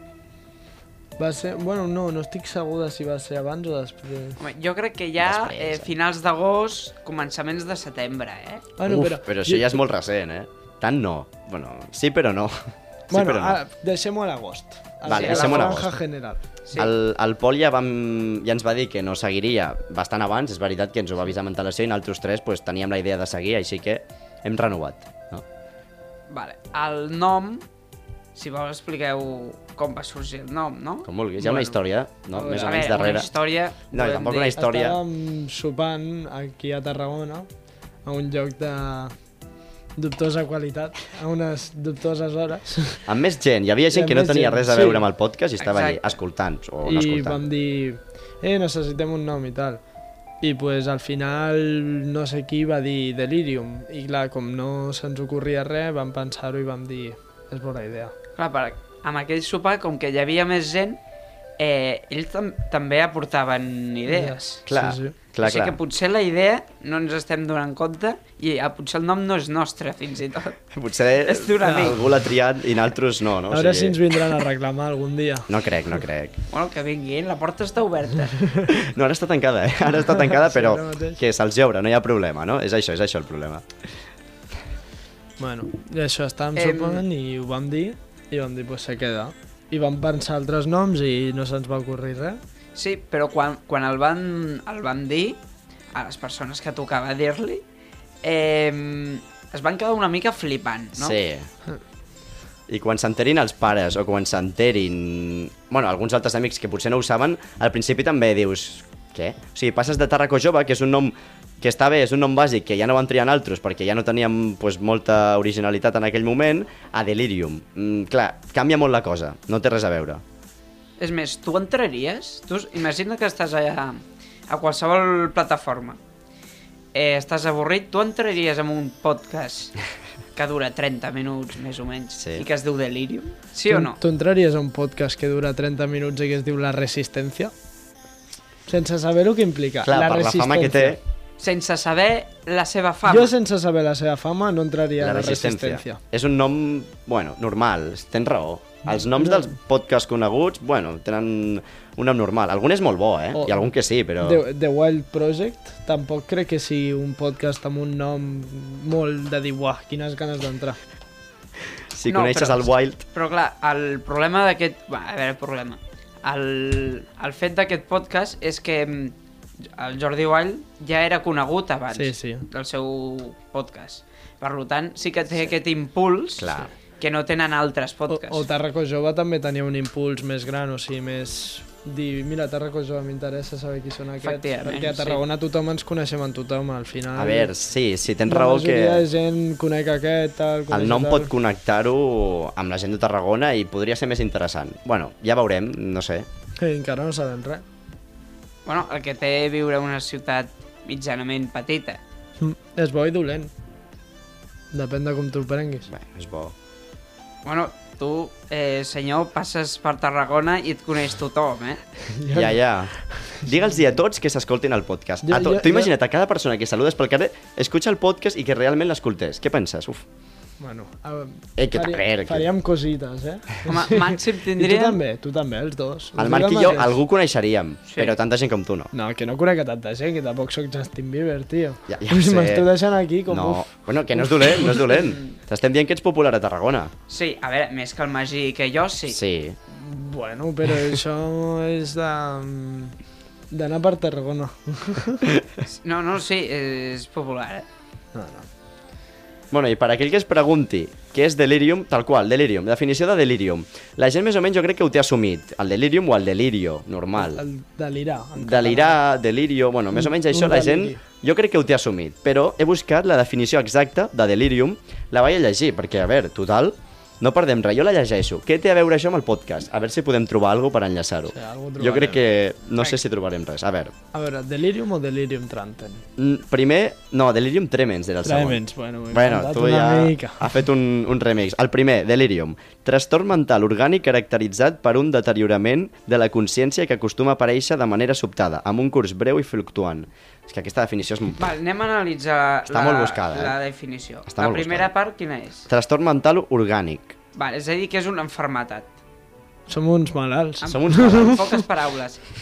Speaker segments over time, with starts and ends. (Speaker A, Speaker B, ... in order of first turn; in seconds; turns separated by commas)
Speaker A: 1.2-4.4, Speaker B: 4.4-8.7, Speaker C: 5.2-5.9, Speaker A: 8.8-9.8, Speaker C: 8.9-13.6, Speaker A: 13.1-16.4, Speaker C: 15.1-16.0, Speaker B: 15.1-15.8, Speaker B: 16.7-16.9, Speaker C: 16.8-25.4, Speaker B: 26.3-27.6, Speaker B: 28.4-31.1, Speaker C: 31.1-33.3, Speaker A: 31.4-31.7, Speaker A: 32.3-32.9, Speaker B: 32.5-34.6, Speaker C: 33.9-35.0, Speaker A: 34.6-37.5, Speaker A: 38.0-39.1, Speaker A: 40.0-43.1, Speaker C: 43.1-47.5, Speaker A: 43.9-45.0, Speaker B: 45.6-46.2, Speaker A: 46.9-49.8, Speaker A: 50.4-58.1, Speaker B: 58.4-61.0, Speaker B: 61.6-64.7, Speaker A: 64.1-65.2, Speaker C: 64.7-65.8, Speaker B: 65.4-70.6, Speaker C: 70.7-74.0, Speaker B: 71.2-72.0, Speaker A: 73.5-75.5, Speaker C: 75.5-76.4, Speaker B: 76.5-78.5, Speaker A: 78.4-78.7, Speaker C: 78.7-83.7, Speaker A: 80.1-81.2, Speaker A: 85.4-92.4, Speaker B: 86.6-87.0, Speaker B: 92.8-95.4, Speaker B: 95.9-97.6, Speaker B: 98.2-101.2, Speaker C: 101.0-101.5, Speaker C: 102.7-120.2, Speaker B: 121.0-126.0, Speaker B: 126.9-129.8, Speaker B: 130.4-134.0, Speaker C: 132.2-132.5, Speaker A: 133.7-137.5, Speaker A: 138.7-141.0, Speaker C: 139.8-141.0, Speaker B: 141.4-143.3, Speaker A: 143.1-146.0, Speaker C: 145.0-154.4, Speaker A: 149.1-149.5, Speaker A: 153.3-153.7, Speaker A: 154.2-160.8, Speaker C: 161.9-163.0, Speaker B: 162.1-169.2, Speaker B: 169.8-178.4, Speaker A: 171.9-172.5, Speaker C: 176.4-176.7, Speaker A: 178.1-187.5, Speaker B: 184.2-185.2, Speaker C: 187.2-189.1, Speaker A: 188.3-191.3, Speaker C: 190.7-196.3, Speaker A: 196.6-197.6, Speaker B: 198.7-202.0, Speaker A: 202.4-203.5, Speaker A: 204.7-205.9, Speaker C: 205.9-206.6, Speaker B: 207.4-211.8, Speaker A: 212.1-213.8, Speaker C: 212.3-220.1, Speaker A: 215.2-215.9, Speaker A: 220.6-227.0, Speaker C: 221.6-222.5, Speaker B: 223.7-225.0, Speaker C: 226.2-228.9, Speaker B: 227.9-228.2, Speaker A: 228.9-234.7, Speaker C: 231.9-232.7, Speaker C: 233.3-236.9, Speaker B: 234.9-235.4, Speaker B: 237.1-239.2, Speaker C: 239.1-239.6, Speaker A: 239.7-242.9, Speaker A: 243.5-245.3, Speaker C: 245.3-245.6, Speaker B: 245.7-247.7, Speaker A: 248.1-248.5, Speaker C: 249.5-257.4, Speaker A: 257.2-259.0, Speaker C: 258.4-273.9, Speaker A: 259.9-261.0, Speaker A: 271.3-272.3, Speaker A: 274.1-276.1, Speaker C: 276.2-291.4, Speaker A: 278.2-280.5, Speaker B: 291.4-295.7, Speaker C: 292.7-293.6, Speaker C: 294.3-294.9, Speaker C: 295.7-297.1, Speaker B: 297.4-298.9, Speaker A: 299.7-301.6, Speaker B: 300.6-302.2, Speaker C: 300.6-301.4